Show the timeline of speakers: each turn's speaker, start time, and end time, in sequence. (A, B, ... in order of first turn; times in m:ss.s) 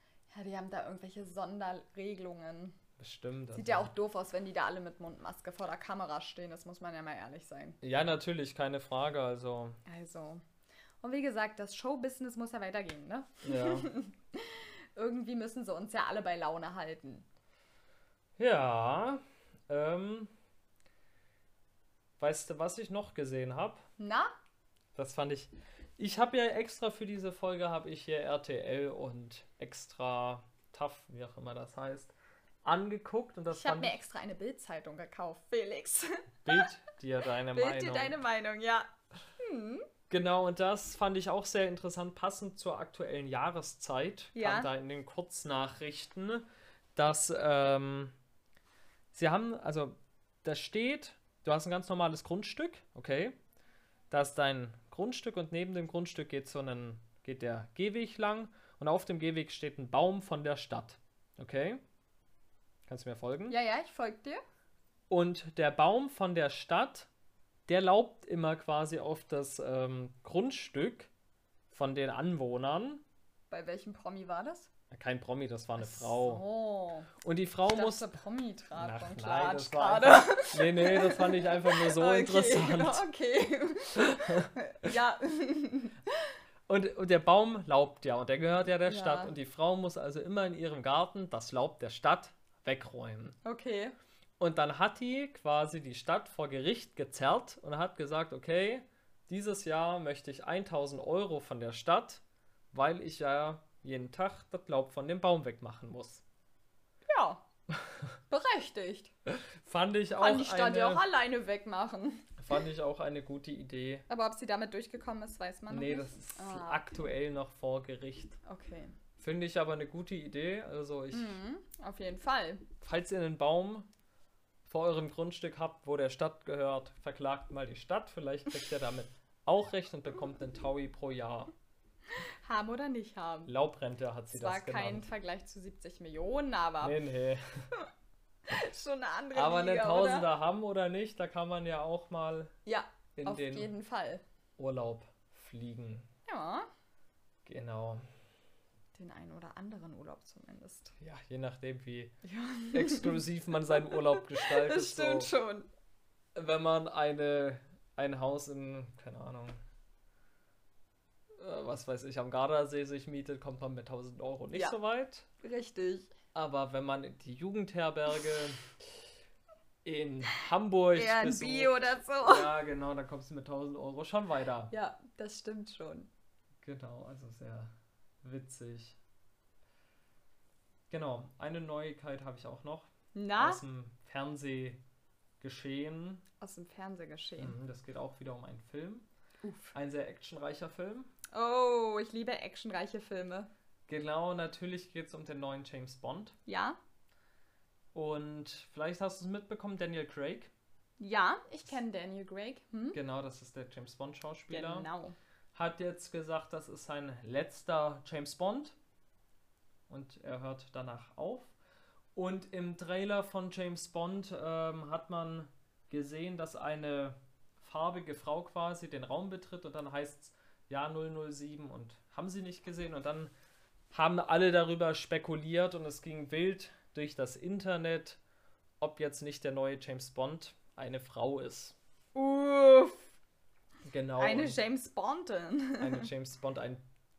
0:00.3-0:02.8 A
0:03.0-0:03.9 B
0:03.6-0:07.8 A
0:07.8-0:09.8 B
0:09.9-0:10.4 A
0:11.0-0:17.2 A
0:13.4-0:13.9 B
0:18.4-0:20.3 B
0:22.2-0:23.8 B
0:24.0-0:24.3 A
0:25.0-0:34.0 B
0:33.5-0:36.7 A
0:36.4-0:38.2 B
0:37.5-0:39.9 A
0:40.1-0:48.2 B
0:44.4-0:44.7 A
0:49.1-0:53.4 B
0:54.1-1:01.8 B
1:02.9-1:03.6 B
1:03.5-1:04.4 A
1:05.1-1:07.1 B
1:07.7-1:11.1 B
1:11.7-1:13.0 B
1:13.5-1:14.7 A
1:14.9-1:16.4 B
1:15.8-1:17.1 A
1:17.2-1:18.1 B
1:17.7-1:26.1 A
1:18.8-1:23.0 B
1:24.0-1:24.5 B
1:26.7-1:33.4 B
1:28.8-1:29.3 A
1:33.4-1:34.0 A
1:34.4-1:46.2 B
1:47.1-1:47.4 A
1:48.3-1:49.1 A
1:49.3-1:51.0 B
1:50.2-1:52.4 A
1:52.4-1:54.1 B
1:54.1-1:57.0 A
1:55.7-1:58.4 B
1:58.4-1:58.9 A
1:59.2-2:01.4 B
2:01.1-2:02.7 A
2:02.8-2:03.9 B
2:04.7-2:11.5 B
2:12.4-2:13.5 A
2:13.5-2:15.1 B
2:14.3-2:17.0 A
2:16.8-2:17.7 B
2:18.5-2:20.3 A
2:19.3-2:22.5 B
2:22.7-2:24.2 A
2:23.2-2:23.7 B
2:24.6-2:26.1 B
2:26.3-2:26.7 A
2:27.4-2:28.0 B
2:29.0-2:31.0 A
2:31.0-2:32.2 B
2:32.2-2:33.2 A
2:32.7-2:35.3 B
2:33.7-2:35.7 A
2:36.4-2:39.6 B
2:41.4-2:45.3 B
2:45.4-2:46.1 A
2:46.3-2:48.7 B
2:49.8-2:54.7 B
2:50.9-2:52.5 A
2:54.7-2:56.1 A
2:56.6-2:59.0 B
3:00.9-3:04.8 B
3:03.1-3:03.6 A
3:05.4-3:06.2 B
3:06.4-3:07.6 A
3:07.4-3:09.1 B
3:09.4-3:09.8 A
3:09.7-3:11.1 B
3:11.3-3:13.5 A
3:13.9-3:16.4 B
3:16.5-3:16.8 A
3:17.9-3:20.5 B
3:21.0-3:23.0 A
3:22.9-3:24.9 B
3:24.5-3:25.2 A
3:25.5-3:28.8 B
3:29.9-3:31.5 B
3:32.2-3:43.3 B
3:43.9-3:48.2 B
3:48.8-3:51.8 B
3:52.2-3:53.1 A
3:53.9-3:54.6 B
3:54.2-3:56.1 A
3:55.8-3:56.8 B